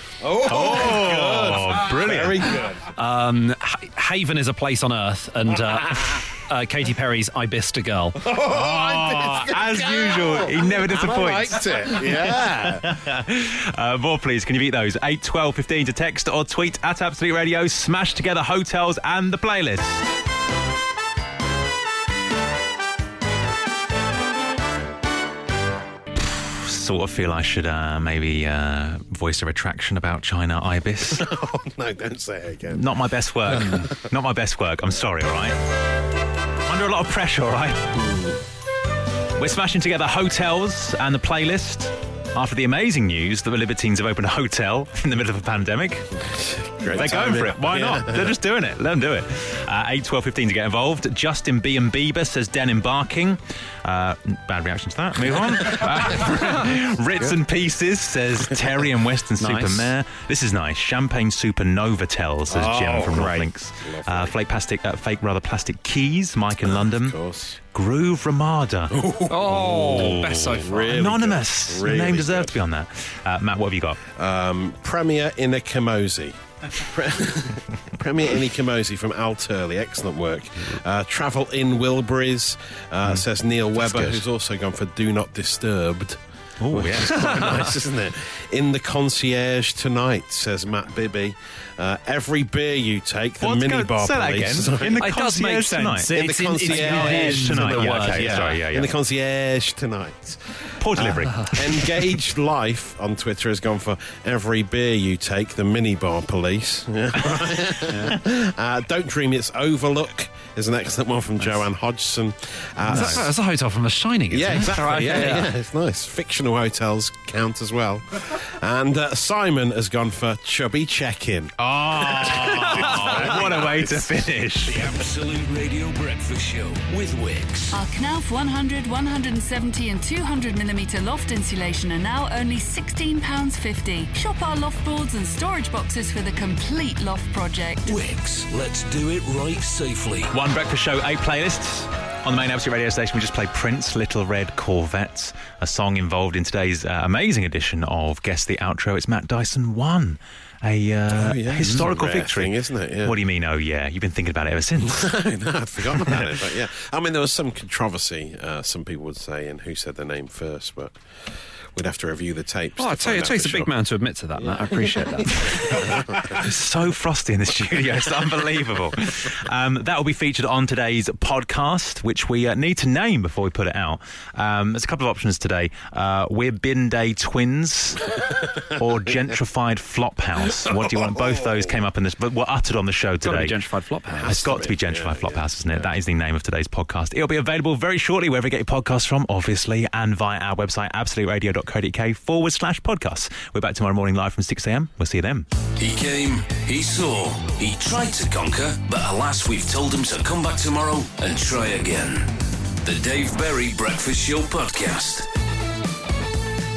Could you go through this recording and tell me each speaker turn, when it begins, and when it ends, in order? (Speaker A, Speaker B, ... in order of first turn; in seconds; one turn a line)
Speaker A: 0.2-2.9
Speaker B: 0.4-2.5
Speaker C: 3.0-8.2
Speaker A: 8.2-12.9
Speaker B: 8.3-20.0
Speaker B: 26.4-31.3
Speaker A: 31.1-34.0
Speaker B: 32.7-35.6
Speaker B: 36.6-38.0
Speaker B: 39.4-46.1
Speaker A: 46.3-48.4
Speaker B: 46.9-67.2
Speaker C: 59.4-59.9
Speaker A: 62.5-64.4
Speaker C: 63.1-63.4
Speaker A: 66.6-67.6
Speaker B: 67.7-69.0
Speaker A: 68.9-72.6
Speaker C: 69.3-71.0
Speaker B: 70.9-74.0
Speaker A: 74.1-95.1
Speaker B: 83.8-84.2
Speaker B: 86.6-87.6
Speaker C: 87.1-87.6
Speaker B: 93.4-96.1
Speaker C: 95.0-98.6
Speaker A: 96.1-113.3
Speaker B: 96.7-98.9
Speaker B: 100.8-101.6
Speaker C: 101.2-101.5
Speaker C: 107.9-108.2
Speaker B: 112.9-113.3
Speaker C: 112.9-115.5
Speaker A: 114.3-124.2
Speaker B: 121.6-124.8
Speaker D: 123.1-123.5
Speaker D: 124.7-127.8
Speaker E: 127.7-138.0
Speaker D: 137.8-140.3
Speaker B: 140.3-155.2
Speaker A: 151.1-153.2
Speaker A: 154.8-163.7
Speaker B: 155.8-156.3
Speaker C: 162.8-165.4
Speaker A: 164.3-166.5
Speaker B: 165.3-178.0
Speaker B: 178.7-183.6
Speaker A: 180.6-181.7
Speaker C: 183.2-184.3
Speaker A: 184.1-185.9
Speaker B: 184.2-195.5
Speaker D: 195.8-205.3